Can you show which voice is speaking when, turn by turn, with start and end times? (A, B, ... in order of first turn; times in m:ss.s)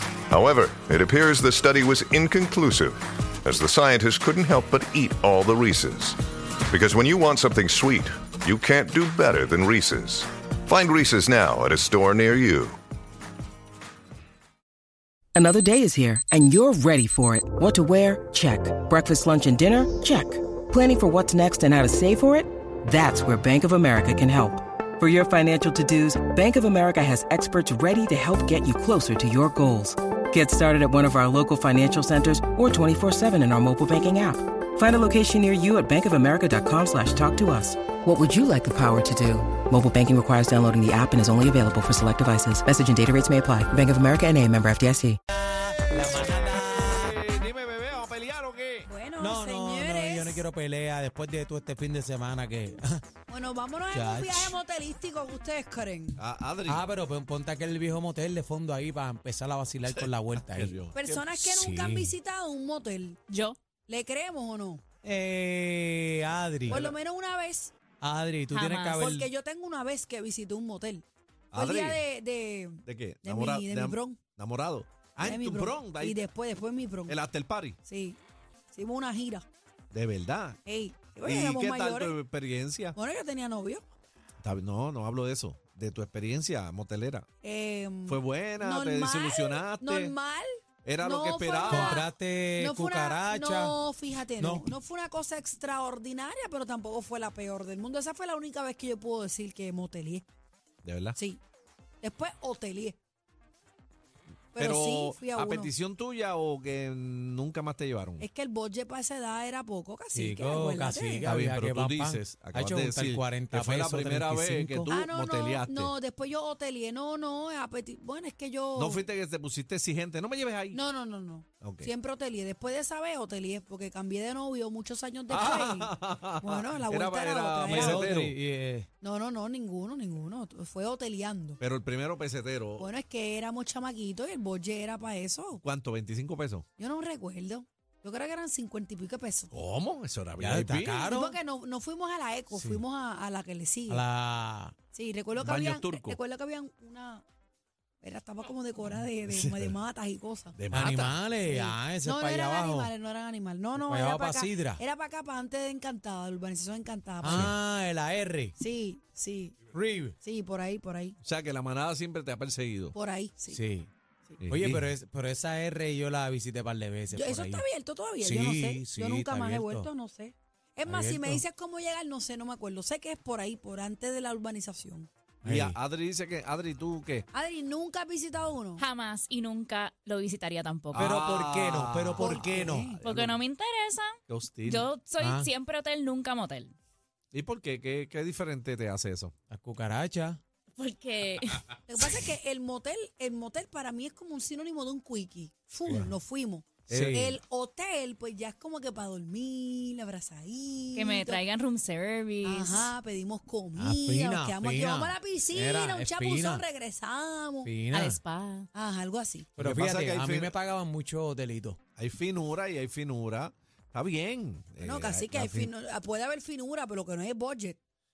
0:00.3-0:12.8 A
0:15.4-0:45.2 B
0:45.3-0:47.2 C
0:46.7-0:48.9 D
0:48.8-0:50.4 E
0:49.2-0:53.0 C
0:53.3-0:56.2 E
0:53.9-0:54.6 C
0:56.2-0:56.8 D
0:56.7-1:00.8 C
0:59.9-1:01.3 D
1:01.0-1:03.2 E
1:01.4-1:02.1 C
1:03.3-1:03.6 F
1:03.9-1:04.8 E
1:05.0-1:06.8 C
1:06.7-1:06.9 D
1:06.7-1:07.7 E
1:08.0-1:09.3 C
1:08.5-1:09.0 F
1:09.0-1:11.0 E
1:11.5-1:12.0 D
1:11.6-1:14.2 E
1:12.9-1:16.2 D
1:15.2-1:17.2 E
1:17.1-1:17.8 D
1:17.8-1:18.2 E
1:18.7-1:19.4 E
1:19.9-1:20.6 D
1:20.6-1:22.1 E
1:21.2-1:23.0 D
1:23.0-1:23.8 E
1:24.4-1:27.3 D
1:27.4-1:30.5 E
1:28.1-1:30.2 D
1:30.8-1:32.0 D
1:31.0-1:40.3 E
1:31.7-1:33.8 C
1:34.4-1:34.7 C
1:40.8-1:41.2 D
1:41.2-1:41.4 E
1:42.0-1:43.0 E
1:44.5-1:45.7 E
1:44.6-1:48.3 D
1:48.2-1:51.3 E
1:50.1-1:55.0 C
1:51.2-1:55.9 D
1:54.9-1:59.0 E
1:58.8-2:00.8 D
2:00.7-2:08.1 E
2:01.6-2:01.9 D
2:05.3-2:08.3 D
2:07.7-2:08.9 C
2:09.0-2:11.6 E
2:11.6-2:12.9 D
2:12.8-2:15.6 E
2:15.6-2:16.7 D
2:16.8-2:19.5 E
2:19.5-2:21.0 D
2:20.4-2:21.4 C
2:21.0-2:24.0 E
2:22.5-2:22.8 C
2:23.9-2:24.8 C
2:24.9-2:27.2 E
2:25.4-2:26.2 D
2:28.0-2:30.6 E
2:29.3-2:29.8 D
2:30.6-2:31.2 D
2:30.7-2:32.9 C
2:31.5-2:37.5 E
2:33.8-2:34.8 C
2:37.2-2:38.6 C
2:38.6-2:39.6 E
2:39.7-2:40.2 C
2:40.2-2:41.2 E
2:41.2-2:43.0 D
2:42.9-2:43.6 E
2:43.5-2:43.9 C
2:44.4-2:44.9 D
2:44.5-2:47.7 C
2:47.1-2:55.1 E
2:48.2-2:49.9 C
2:50.9-2:51.4 C
2:55.4-2:55.8 C
2:55.4-2:57.3 D
2:57.3-2:58.8 E
2:58.8-3:01.2 F
3:00.9-3:03.4 D
3:00.9-3:02.9 C
3:02.2-3:03.0 E
3:03.0-3:06.7 F
3:04.3-3:04.9 D
3:05.2-3:05.5 C
3:07.3-3:09.3 D
3:09.5-3:10.4 C
3:10.8-3:11.7 F
3:11.9-3:21.4 E
3:16.9-3:17.3 C
3:16.9-3:17.4 D
3:21.0-3:22.9 F
3:22.4-3:27.7 E
3:23.8-3:26.6 C
3:27.6-3:28.2 C
3:27.9-3:28.7 F
3:28.7-3:29.5 E
3:29.6-3:31.8 C
3:29.6-3:30.5 D
3:32.0-3:35.7 D
3:34.8-3:37.8 E